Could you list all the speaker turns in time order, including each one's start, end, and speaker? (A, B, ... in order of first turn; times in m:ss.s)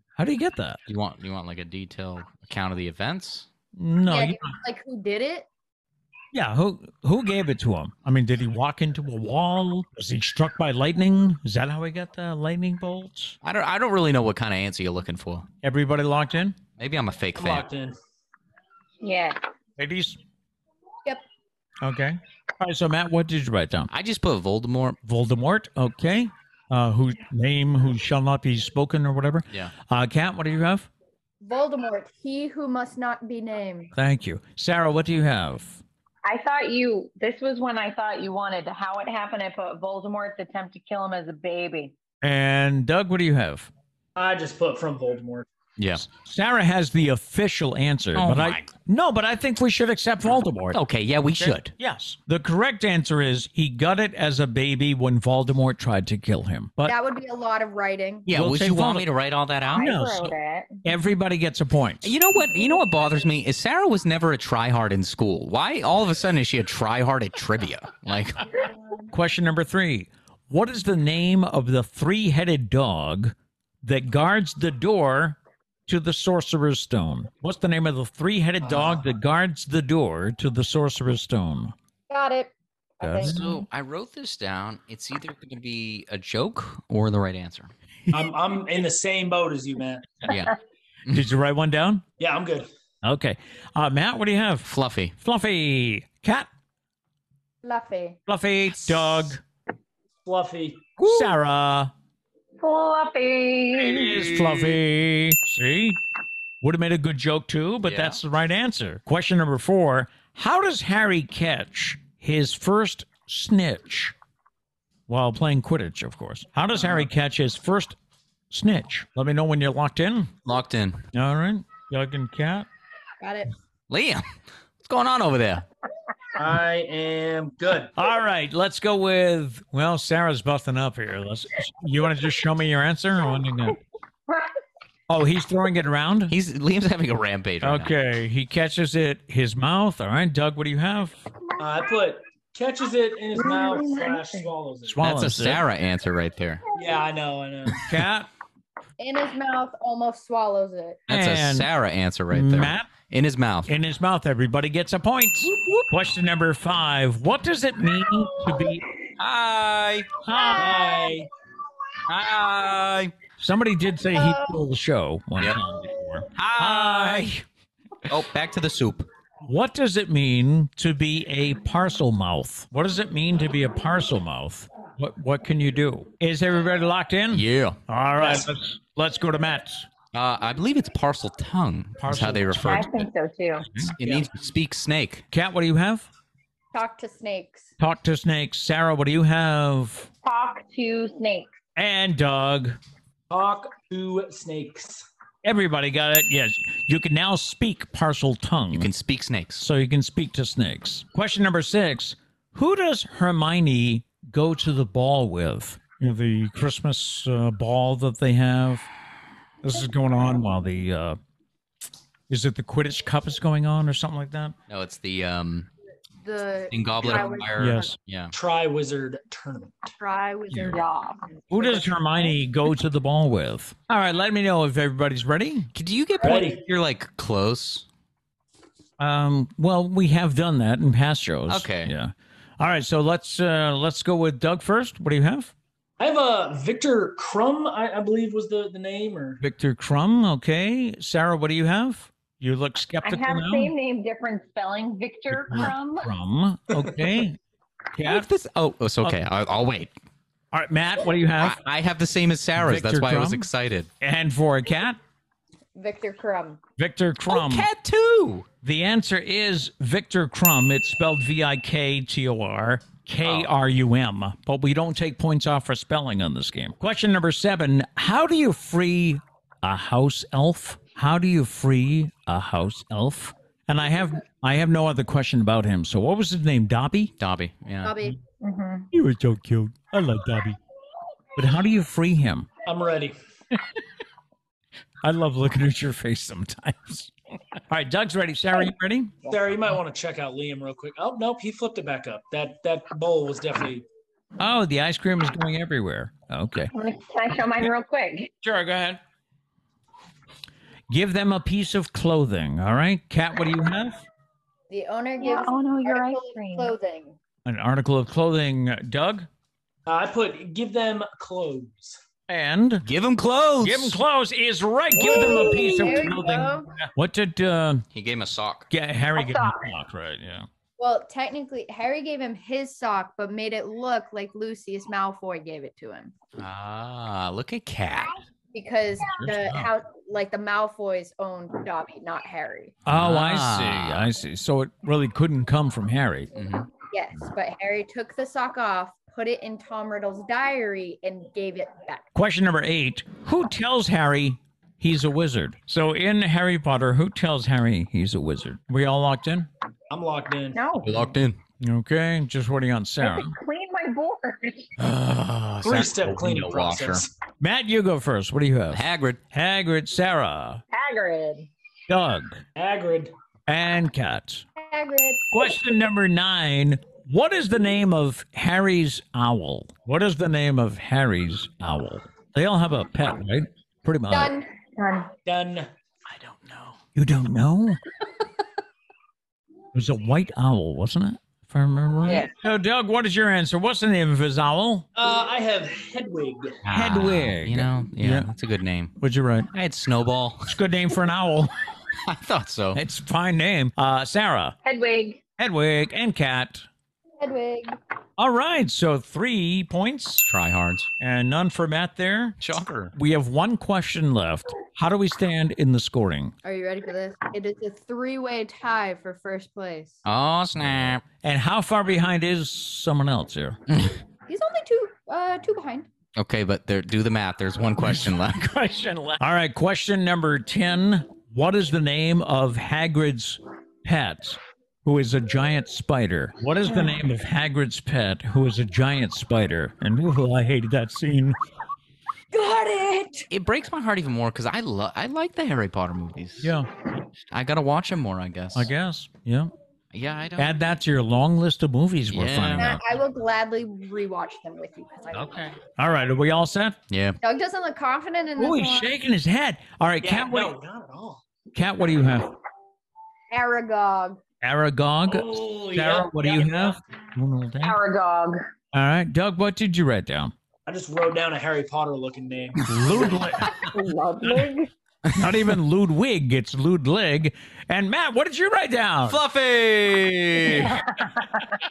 0:00.2-0:00.8 A
0:00.9-0:03.5 B
0:03.8-0:04.6 A
0:04.1-0:05.5 C
0:06.3-0:13.4 A
0:13.4-0:15.5 B
0:15.6-0:16.6 A
0:16.8-0:17.7 B
0:17.4-0:18.0 D
0:19.0-0:19.4 E
0:19.8-0:20.2 A
0:21.8-0:23.9 A
0:23.9-0:25.0 B
0:25.0-0:30.9 A
0:31.4-0:33.9 C
0:34.0-0:35.8 A
0:36.2-0:41.9 E
0:42.2-0:43.7 A
0:44.2-0:45.4 D
0:45.8-0:46.1 B
0:46.0-0:50.8 A
0:48.1-0:48.7 B
0:50.7-0:51.7 B
0:51.4-0:57.0 A
0:56.8-0:58.3 C
0:58.3-0:59.9 B
0:58.3-0:59.1 A
0:59.7-1:00.8 E
0:59.8-1:00.3 A
1:00.8-1:02.1 A
1:02.0-1:08.5 B
1:09.1-1:21.7 A
1:18.6-1:19.0 D
1:22.1-1:23.4 C
1:23.0-1:23.4 A
1:23.2-1:27.7 B
1:28.1-1:30.2 D
1:30.3-1:30.5 B
1:31.0-1:31.3 B
1:31.1-1:32.0 A
1:32.2-1:32.7 D
1:33.0-1:34.7 A
1:34.6-1:35.1 B
1:35.2-1:36.5 A
1:37.6-1:38.2 C
1:38.3-1:39.4 A
1:38.7-1:39.3 B
1:40.2-1:40.9 D
1:41.0-1:41.9 A
1:41.0-1:41.3 B
1:42.6-1:44.3 E
1:43.8-1:46.0 A
1:44.4-1:44.8 B
1:46.6-1:54.1 A
1:47.8-1:48.2 B
1:55.1-1:58.0 A
1:58.5-2:00.3 A
2:00.4-2:01.0 B
2:01.1-2:02.7 A
2:03.2-2:03.5 C
2:03.9-2:04.3 B
2:04.8-2:05.7 B
2:06.4-2:07.9 D
2:08.0-2:13.8 A
2:15.1-2:16.3 A
2:16.3-2:17.9 B
2:17.6-2:21.2 A
2:21.5-2:21.9 E
2:21.6-2:25.1 D
2:23.3-2:24.5 E
2:24.9-2:25.6 A
2:25.0-2:26.6 B
2:26.8-2:27.8 D
2:27.9-2:28.3 A
2:29.0-2:31.0 C
2:31.1-2:33.7 B
2:31.1-2:31.7 A
2:32.3-2:32.9 A
2:33.7-2:38.9 A
2:35.4-2:35.9 B
2:39.2-2:40.1 B
2:40.2-2:40.8 A
2:40.4-2:41.1 C
2:40.5-2:41.3 D
2:42.1-2:43.1 B
2:43.4-2:47.4 A
2:44.1-2:44.6 C
2:46.3-2:47.3 B
2:48.1-2:49.1 B
2:49.4-2:59.9 A
2:57.3-2:58.4 B
3:00.1-3:03.1 B
3:02.0-3:02.9 A
3:02.6-3:03.7 E
3:03.7-3:04.2 A
3:03.8-3:05.2 B
3:05.3-3:06.1 A
3:06.7-3:07.7 C
3:07.8-3:10.1 A
3:10.2-3:11.5 E
3:11.8-3:12.8 A
3:13.3-3:15.1 D
3:15.4-3:18.9 A
3:18.7-3:19.6 B
3:19.6-3:28.9 A
3:29.6-3:31.2 A
3:32.3-3:34.6 A
3:34.7-3:35.7 B
3:36.2-3:38.0 C
3:36.7-3:38.4 B
3:37.6-3:38.0 A
3:38.3-3:39.9 D
3:40.0-3:41.9 C
3:40.5-3:40.8 A
3:40.6-3:41.2 E
3:41.5-3:45.7 A
3:45.7-3:47.9 B
3:46.2-3:46.6 D
3:49.0-3:55.5 A
3:51.5-3:51.9 B
3:56.0-3:59.4 D
3:59.4-4:03.8 A
4:03.0-4:06.1 E
4:05.3-4:07.4 A
4:08.0-4:08.3 A
4:08.0-4:09.9 B
4:10.5-4:11.6 A
4:11.4-4:13.9 B
4:12.6-4:13.5 A
4:14.0-4:15.0 A
4:15.8-4:16.6 C
4:16.8-4:17.7 A
4:17.3-4:18.4 B
4:18.6-4:37.1 A
4:23.2-4:23.5 B
4:37.2-4:38.0 B
4:37.8-4:38.2 C
4:38.4-4:38.9 E
4:38.9-4:40.6 A
4:41.4-4:42.5 A
4:42.7-4:43.1 D
4:45.0-4:47.1 A
4:47.7-4:49.2 A
4:49.3-4:53.8 D
4:54.4-4:56.7 A
4:56.7-4:58.3 E
4:58.4-4:59.0 A
5:00.9-5:04.1 A
5:04.7-5:07.2 C
5:05.2-5:06.7 E
5:07.4-5:09.3 A
5:09.9-5:12.0 D
5:12.3-5:12.9 A
5:12.8-5:14.0 B
5:13.6-5:17.8 A
5:15.0-5:16.8 C
5:15.1-5:15.8 D
5:17.9-5:18.7 B
5:18.7-5:20.5 A
5:19.1-5:19.7 E
5:20.8-5:26.1 C
5:26.4-5:28.2 B
5:28.5-5:32.8 C
5:29.2-5:29.6 A
5:32.9-5:36.3 A
5:32.9-5:34.1 B
5:36.4-5:36.7 B
5:36.8-5:42.1 C
5:42.1-5:49.5 A
5:49.9-5:50.7 D
5:50.6-5:51.0 E
5:50.8-5:51.4 B
5:51.6-5:53.3 A
5:53.0-5:54.7 E
5:54.8-5:57.1 B
5:55.6-5:57.1 D
5:57.4-6:00.6 A
5:58.7-5:59.2 B
6:00.7-6:01.5 E
6:01.9-6:02.4 A
6:02.6-6:03.1 D
6:03.5-6:04.4 A
6:04.6-6:05.5 C
6:05.3-6:14.4 A
6:14.1-6:14.5 C
6:14.8-6:15.1 E
6:15.3-6:15.7 D
6:16.1-6:16.8 B
6:17.0-6:17.8 A
6:19.7-6:24.9 A
6:25.0-6:26.6 D
6:26.6-6:29.0 B
6:26.7-6:28.3 A
6:29.0-6:29.5 A
6:29.5-6:30.5 B
6:30.5-6:31.5 A
6:32.0-6:32.8 B
6:32.7-6:34.6 A
6:34.6-6:35.2 E
6:35.4-6:36.7 A
6:37.2-6:37.8 C
6:38.2-6:40.2 A
6:40.2-6:40.9 B
6:41.0-6:42.4 A
6:42.4-6:42.9 B
6:43.0-6:46.3 A
6:46.4-6:50.0 C
6:50.0-6:51.0 B
6:51.2-6:53.6 A
6:53.7-6:54.0 B
6:54.3-6:55.9 C
6:56.2-6:58.5 B
6:57.8-7:11.4 A
7:12.3-7:13.3 C
7:13.3-7:16.5 B
7:16.4-7:16.7 A
7:17.3-7:18.7 B
7:18.6-7:19.5 A
7:19.9-7:20.6 B
7:20.4-7:22.8 A
7:22.1-7:22.8 B
7:22.6-7:25.5 C
7:25.1-7:26.8 A
7:26.9-7:27.2 B
7:27.2-7:28.9 C
7:28.4-7:30.5 A
7:30.0-7:31.2 D
7:31.5-7:32.4 A
7:33.3-7:34.2 C
7:34.4-7:37.8 A
7:35.1-7:36.8 D
7:37.6-7:38.4 E
7:38.7-7:40.3 A
7:40.7-7:43.3 D
7:42.7-7:43.7 A
7:43.5-7:44.7 E
7:45.0-7:45.4 B
7:45.2-7:49.2 A
7:49.1-7:50.8 B